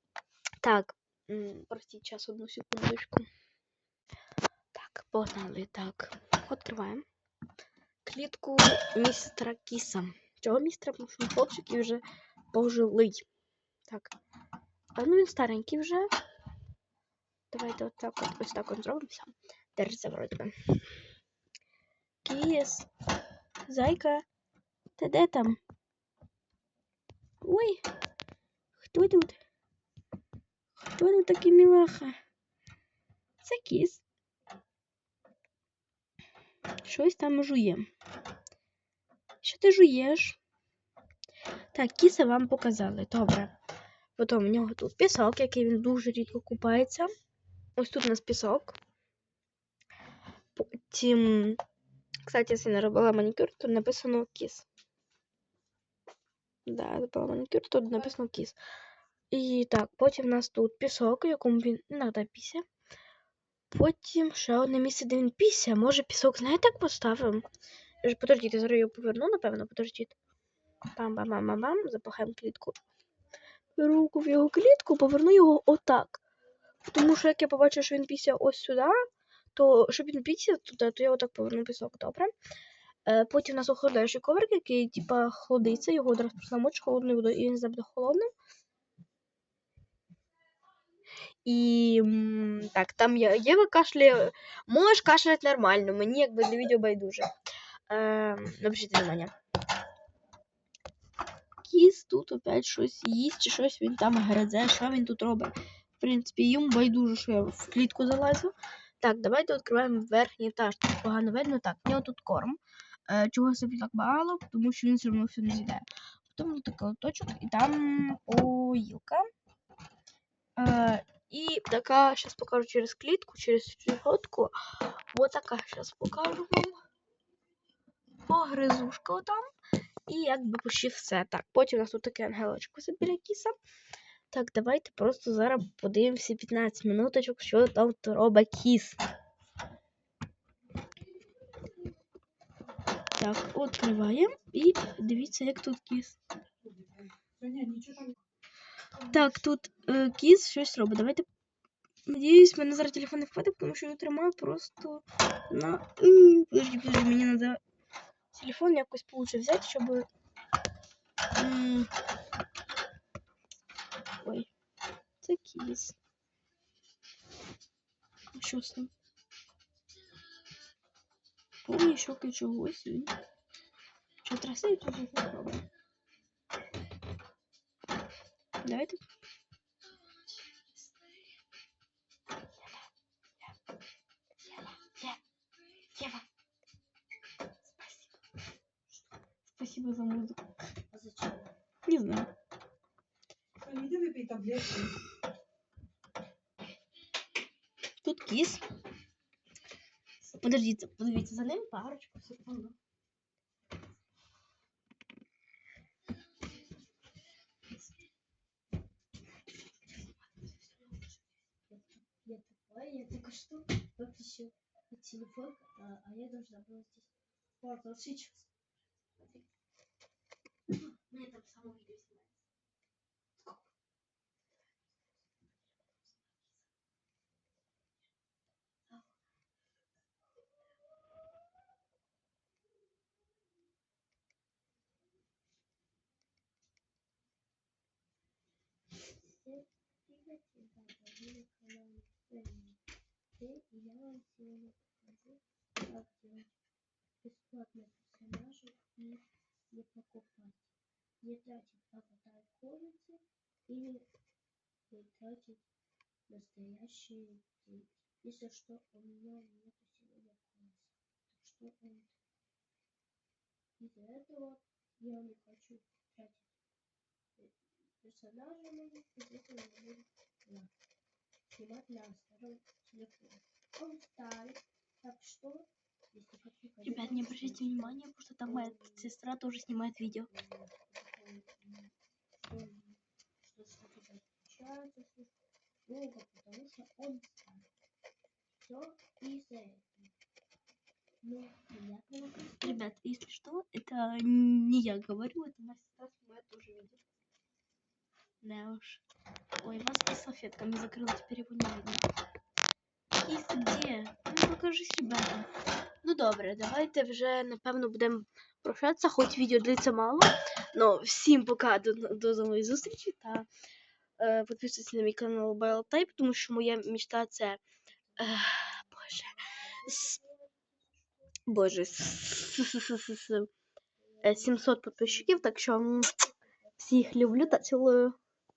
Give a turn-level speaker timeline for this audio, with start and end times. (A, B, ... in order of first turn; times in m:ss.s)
0:00.6-0:03.3 A
0:04.7-0:07.0 A
0:08.0-0:13.2 A
0:13.9-0:14.1 A
0:15.0-0:16.1 A
0:17.5-0:20.5 A
0:22.2-0:22.9 A
0:23.7-0:24.2 A
0:25.0-0:25.6 A
0:27.4-0:27.8 A
0:28.8-0:29.4 A
0:30.8-0:32.2 A
0:33.4-0:34.0 A
0:36.8-0:37.8 A
0:39.4-0:40.4 A
0:41.7-0:43.5 A
0:44.2-0:47.1 A
0:47.8-0:48.8 A
0:50.6-0:51.6 A
0:52.2-0:54.7 A
0:56.6-0:58.6 A
0:59.3-1:02.6 A
1:03.7-1:07.4 A
1:08.0-1:10.2 A
1:10.9-1:12.8 A
1:13.8-1:16.2 A
1:16.8-1:19.0 A
1:19.5-1:22.3 A
1:23.0-1:28.3 A
1:31.4-1:37.3 A
1:37.9-1:39.3 A
1:41.6-1:59.2 A
2:00.6-2:04.5 A
2:05.1-2:06.8 A
2:08.2-2:09.4 A
2:10.1-2:13.6 A
2:14.3-2:19.0 A
2:23.2-2:26.2 A
2:27.4-2:28.1 B
2:29.0-2:31.2 A
2:32.1-2:37.6 A
2:38.3-2:40.1 A
2:41.4-2:41.9 A
2:44.2-2:44.5 A
2:45.2-2:46.0 A
2:48.3-2:48.9 A
2:51.6-2:53.1 A
2:54.2-2:55.6 A
2:58.6-2:59.0 A
3:04.5-3:05.2 A
3:05.9-3:06.2 A
3:07.7-3:08.1 A
3:09.5-3:10.4 A
3:10.9-3:11.5 C
3:11.8-3:12.3 A
3:13.6-3:14.9 B
3:18.0-3:18.6 A
3:20.4-3:22.7 A
3:30.4-3:31.1 A
3:31.7-3:38.5 C
3:40.9-3:42.3 A
3:45.9-3:46.4 A
3:59.1-4:02.8 C
4:03.3-4:06.5 C
4:07.2-4:14.1 C
4:14.9-4:15.6 C
4:16.3-4:22.2 C
4:23.8-4:26.5 C
4:27.4-4:30.7 C
4:31.5-4:39.1 C
4:36.8-4:40.3 A
4:40.3-4:45.3 C
4:45.8-4:47.7 C
4:48.6-4:50.1 C
4:51.2-4:52.8 C
4:52.6-4:57.0 A
4:58.4-4:59.0 A
4:59.6-5:02.0 A
5:03.2-5:05.5 A
5:06.0-5:13.5 A
5:14.2-5:17.6 A
5:15.9-5:16.2 C
5:18.1-5:21.3 C
5:18.2-5:20.2 A
5:21.5-5:23.5 A
5:24.0-5:27.8 C
5:24.2-5:26.1 A
5:26.8-5:28.2 A